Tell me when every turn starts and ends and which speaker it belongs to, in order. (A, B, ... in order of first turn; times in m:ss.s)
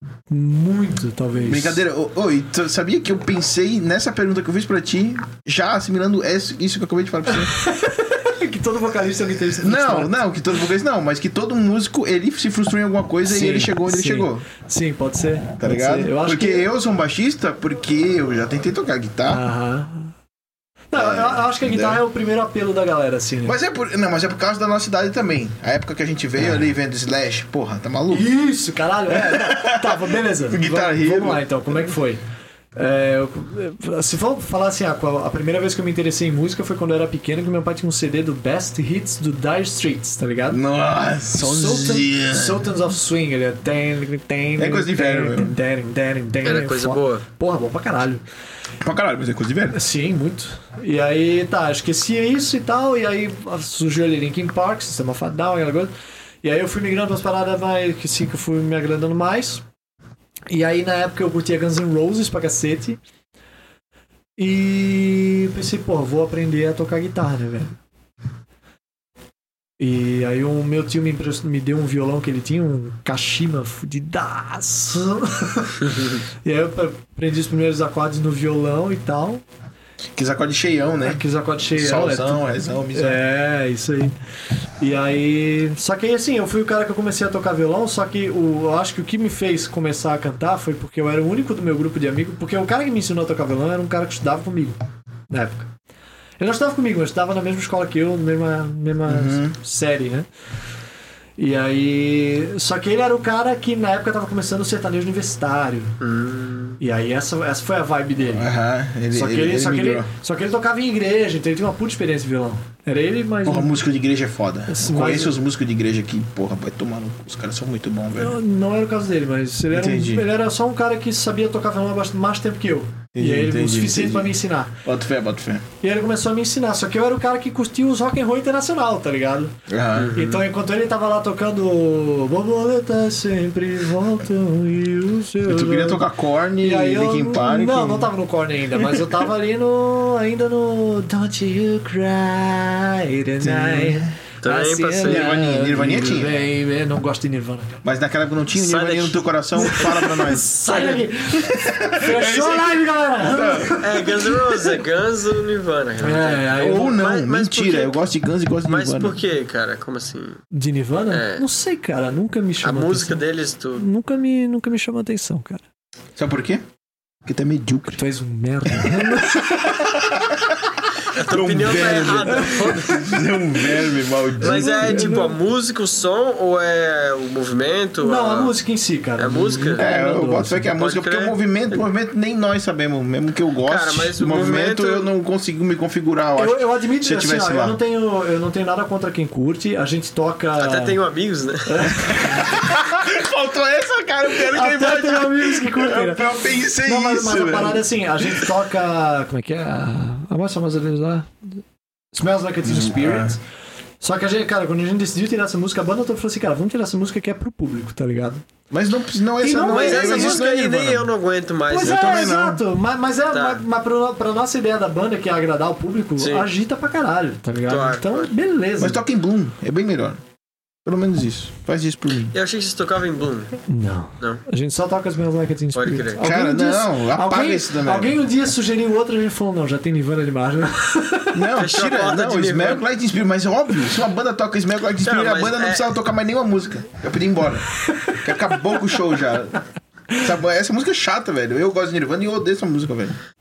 0:00.3-0:01.8 A
0:01.4-0:07.5 B
0:07.3-0:10.2 A
0:09.5-0:14.4 B
0:13.2-0:16.7 A
0:15.6-0:19.4 B
0:19.3-0:20.1 A
0:20.9-0:23.6 A
0:20.9-0:22.0 B
0:23.4-0:28.3 B
0:28.1-0:32.2 A
0:29.1-0:31.4 B
0:32.8-0:40.6 A
0:40.5-0:42.7 B
0:41.4-0:48.2 A
0:44.6-0:45.5 B
0:46.4-0:47.2 C
0:48.8-0:49.8 B
0:49.7-0:55.9 A
0:56.4-0:59.6 A
1:00.5-1:03.0 A
1:04.4-1:07.8 A
1:09.8-1:19.4 A
1:20.1-1:21.2 B
1:21.0-1:24.1 A
1:21.7-1:23.2 B
1:24.8-1:34.8 A
1:35.3-1:35.7 A
1:36.4-1:40.3 A
1:39.1-1:39.6 B
1:41.4-1:46.0 A
1:46.0-1:46.8 C
1:46.8-1:48.5 A
1:48.3-1:50.1 B
1:49.1-1:53.8 A
1:53.4-1:58.4 B
1:54.7-1:55.4 A
1:58.2-2:04.7 A
1:59.7-2:00.2 B
2:03.1-2:05.7 B
2:05.8-2:09.5 A
2:09.7-2:10.2 B
2:10.0-2:10.4 C
2:10.1-2:16.1 A
2:15.4-2:18.1 B
2:16.6-2:27.8 A
2:18.8-2:19.1 B
2:23.4-2:24.1 B
2:24.4-2:25.4 C
2:25.0-2:26.4 B
2:27.8-2:30.6 B
2:28.5-2:29.2 C
2:29.6-2:34.8 A
2:30.7-2:31.0 C
2:31.3-2:34.2 B
2:33.8-2:38.0 C
2:36.0-2:37.0 A
2:36.5-2:39.2 B
2:38.6-2:40.4 C
2:40.5-2:43.2 A
2:41.1-2:41.4 C
2:42.6-2:43.8 C
2:43.8-2:45.6 A
2:46.2-2:46.6 B
2:47.2-2:48.0 B
2:48.0-2:50.0 A
2:48.7-2:55.1 B
2:51.1-2:53.1 C
2:52.2-2:53.4 A
2:54.4-2:55.4 A
2:54.4-2:58.5 C
2:58.0-3:00.7 A
2:59.2-2:59.9 C
2:59.7-3:07.8 B
3:00.8-3:01.4 C
3:03.6-3:05.1 C
3:06.4-3:11.0 A
3:10.6-3:12.0 C
3:11.7-3:12.6 A
3:12.1-3:18.5 B
3:14.5-3:21.6 A
3:22.1-3:23.4 A
3:22.6-3:23.4 B
3:24.0-3:28.4 A
3:28.7-3:31.1 B
3:29.4-3:30.4 A
3:29.6-3:32.1 C
3:31.7-3:39.0 A
3:31.8-3:32.6 B
3:33.3-3:33.6 C
3:36.2-3:36.5 C
3:37.7-3:38.3 C
3:38.8-3:40.2 B
3:40.8-3:42.3 B
3:42.3-3:43.6 C
3:43.7-3:51.4 A
3:45.7-3:46.2 C
3:46.2-3:48.1 B
3:51.3-3:59.6 B
3:51.6-3:52.8 C
3:55.0-3:55.9 C
3:57.8-3:58.2 A
3:58.7-3:59.0 A
4:00.1-4:03.2 B